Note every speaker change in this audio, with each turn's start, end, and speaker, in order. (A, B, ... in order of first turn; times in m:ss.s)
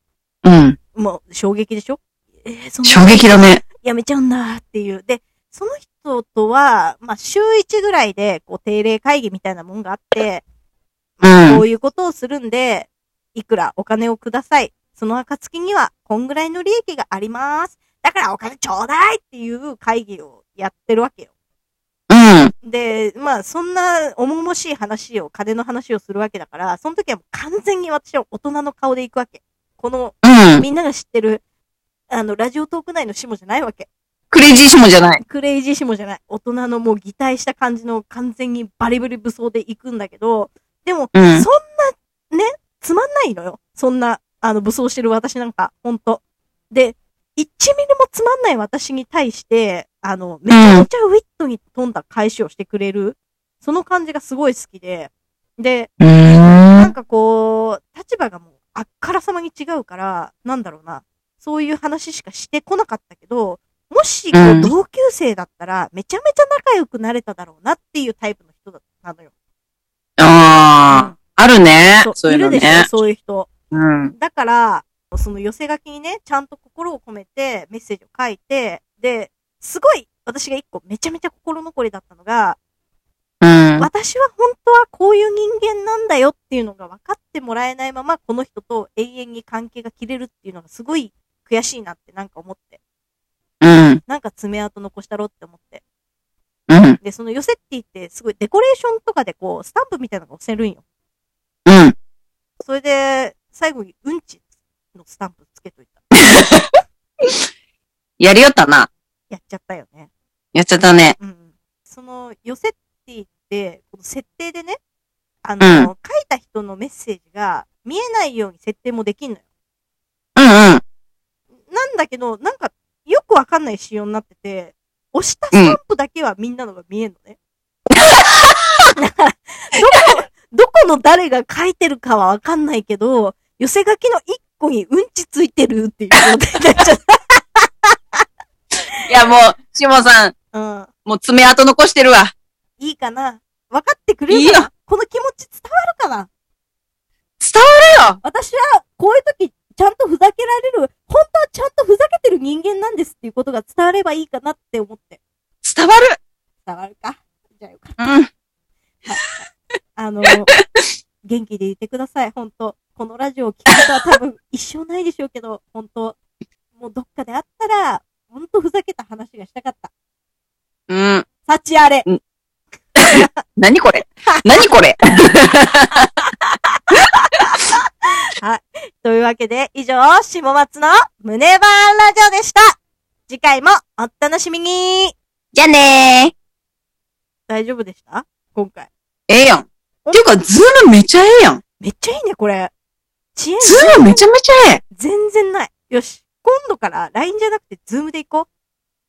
0:00.4-0:00.8 A
0:00.9-0:10.4 B
0:02.8-0:03.6 A
0:11.2-0:21.3 B
0:11.2-0:11.6 A
0:22.1-0:22.5 A
0:22.6-0:31.4 B
0:30.2-0:30.6 A
0:32.1-0:33.9 B
0:34.3-0:35.2 A
0:35.2-0:55.9 B
0:41.1-0:41.5 A
0:50.5-0:50.8 A
0:56.0-0:56.9 A
0:56.7-1:09.3 B
1:04.3-1:04.7 A
1:10.2-1:12.9 A
1:10.9-1:11.2 B
1:12.0-1:13.5 B
1:13.7-1:14.1 A
1:14.2-1:22.6 B
1:23.4-1:23.9 A
1:23.8-1:32.8 B
1:33.6-1:34.0 A
1:34.1-1:35.8 B
1:36.7-1:37.0 A
1:37.0-1:40.8 B
1:41.6-1:42.0 A
1:42.6-1:44.4 B
1:44.9-1:46.1 B
1:46.4-1:46.6 A
1:48.2-1:48.9 A
1:49.3-1:50.1 B
1:50.5-1:51.2 A
1:51.2-1:54.8 B
1:55.4-1:59.4 B
1:55.6-1:55.9 A
2:00.4-2:00.8 A
2:01.7-2:07.4 B
2:07.9-2:08.6 A
2:09.0-2:18.2 B
2:19.0-2:20.3 A
2:20.5-2:20.9 B
2:21.0-2:22.3 A
2:22.8-2:26.3 B
2:24.3-2:24.7 A
2:27.4-2:28.2 A
2:28.2-2:35.2 B
2:35.6-2:36.2 A
2:36.6-2:38.1 B
2:38.0-2:38.3 A
2:40.0-2:40.5 B
2:41.2-2:46.2 B
2:46.8-2:49.9 B
2:50.9-2:51.2 A
2:51.4-2:52.0 B
2:53.0-2:56.1 A
2:53.0-2:53.3 B
2:58.4-3:05.2 B
3:05.5-3:06.3 A
3:07.5-3:08.9 B
3:09.3-3:11.6 A
3:10.0-3:10.4 B
3:11.8-3:12.7 B
3:13.4-3:14.2 B
3:13.6-3:14.8 A
3:14.9-3:18.5 B